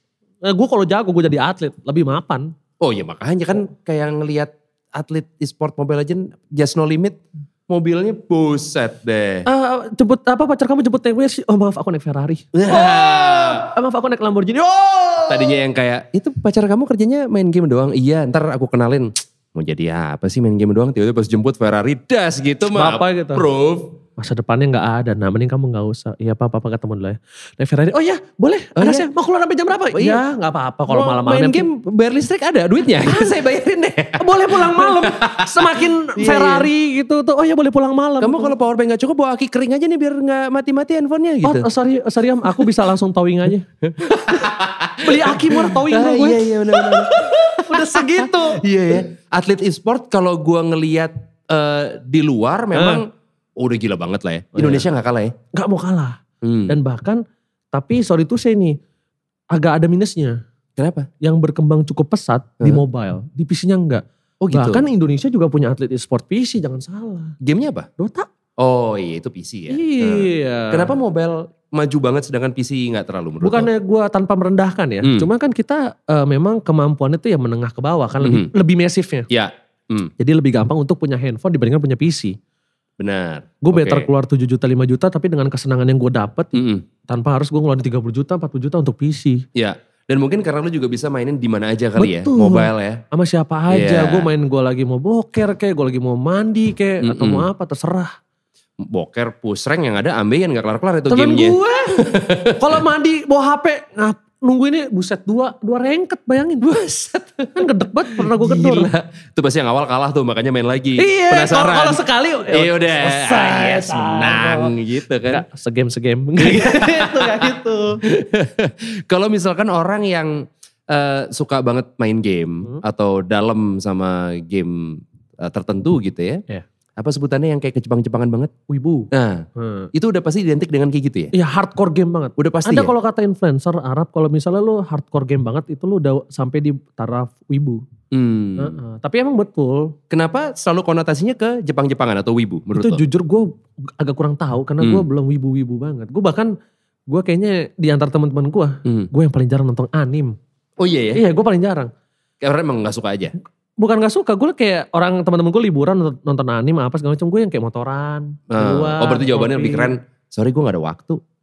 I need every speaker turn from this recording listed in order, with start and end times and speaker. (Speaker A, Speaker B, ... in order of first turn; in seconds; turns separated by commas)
Speaker A: 0.4-2.5, Speaker B: 2.8-9.5, Speaker A: 9.5-15.6, Speaker B: 12.5-13.7, Speaker B: 15.3-23.9, Speaker A: 22.7-23.4, Speaker A: 24.2-31.7, Speaker B: 28.8-29.1, Speaker B: 29.9-30.2, Speaker B: 30.9-36.7, Speaker A: 33.0-33.4, Speaker A: 34.2-38.5, Speaker B: 38.2-41.7, Speaker A: 41.4-43.7, Speaker B: 43.8-55.3, Speaker A: 45.0-48.6, Speaker A: 52.7-53.0, Speaker A: 54.5-54.9, Speaker A: 55.5-56.2, Speaker B: 56.4-56.8, Speaker A: 56.7-57.2, Speaker A: 57.7-58.8, Speaker A: 59.5-60.4, Speaker B: 60.8-61.1, Speaker A: 61.2-67.4, Speaker B: 64.4-64.9, Speaker B: 67.4-67.9, Speaker A: 68.0-68.3, Speaker B: 68.6-73.7, Speaker A: 69.7-70.9, Speaker A: 73.4-79.3, Speaker B: 75.0-75.3, Speaker B: 78.2-78.5, Speaker B: 79.3-80.1, Speaker A: 80.2-82.4, Speaker B: 83.0-84.1, Speaker A: 83.6-89.4, Speaker B: 86.5-86.9, Speaker B: 89.5-93.0, Speaker A: 92.0-98.1, Speaker B: 93.7-94.3, Speaker B: 97.0-97.5, Speaker B: 98.8-102.8, Speaker A: 101.1-106.8, Speaker B: 106.6-115.4, Speaker A: 107.5-108.9, Speaker A: 111.0-114.8, Speaker A: 115.3-118.0, Speaker B: 116.4-117.5, Speaker B: 118.0-126.4, Speaker B: 127.0-128.5, Speaker A: 128.7-129.9, Speaker B: 129.1-131.3, Speaker A: 131.3-137.8, Speaker B: 132.4-132.9, Speaker B: 138.1-138.8, Speaker A: 138.6-139.9, Speaker B: 140.1-143.0, Speaker A: 142.8-146.5, Speaker A: 147.1-150.4, Speaker B: 150.8-151.2, Speaker A: 151.2-151.9, Speaker B: 152.4-153.3, Speaker A: 153.8-159.9, Speaker B: 158.5-161.2